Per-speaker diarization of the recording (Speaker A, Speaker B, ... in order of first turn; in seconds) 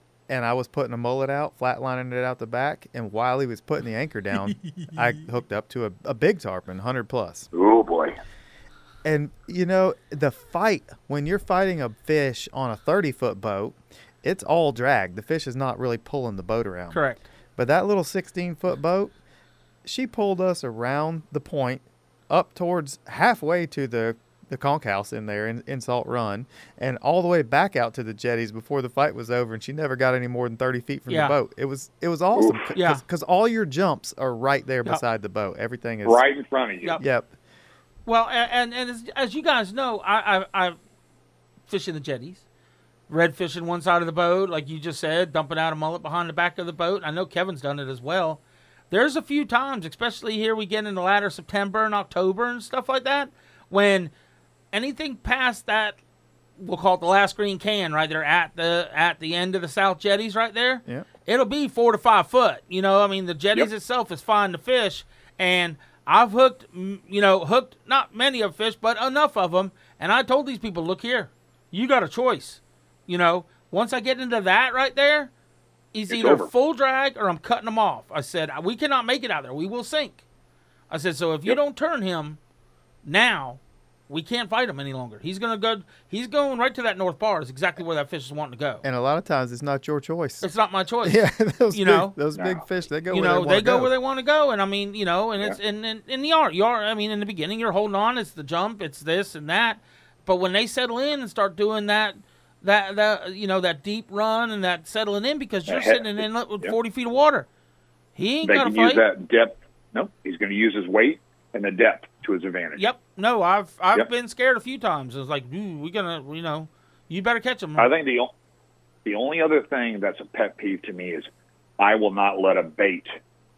Speaker A: 0.3-7.5, 9.0-17.0, 17.6-19.1, 19.8-36.2, 37.0-37.3, 88.8-90.5, 91.0-93.9
Speaker B: 7.5-8.2, 32.3-32.7, 36.0-37.0, 76.1-76.5, 92.3-92.6, 105.7-106.7, 108.4-112.8, 117.8-118.3, 119.0-121.3, 121.8-123.1
Speaker C: 16.9-17.2, 31.1-31.4, 32.7-33.0, 38.0-40.8, 41.7-42.4, 43.1-54.1, 54.7-56.0, 56.6-75.3, 75.9-80.2, 80.9-82.4, 83.0-88.8, 90.4-91.2, 91.7-92.2, 93.1-107.5, 108.2-109.0, 112.8-117.9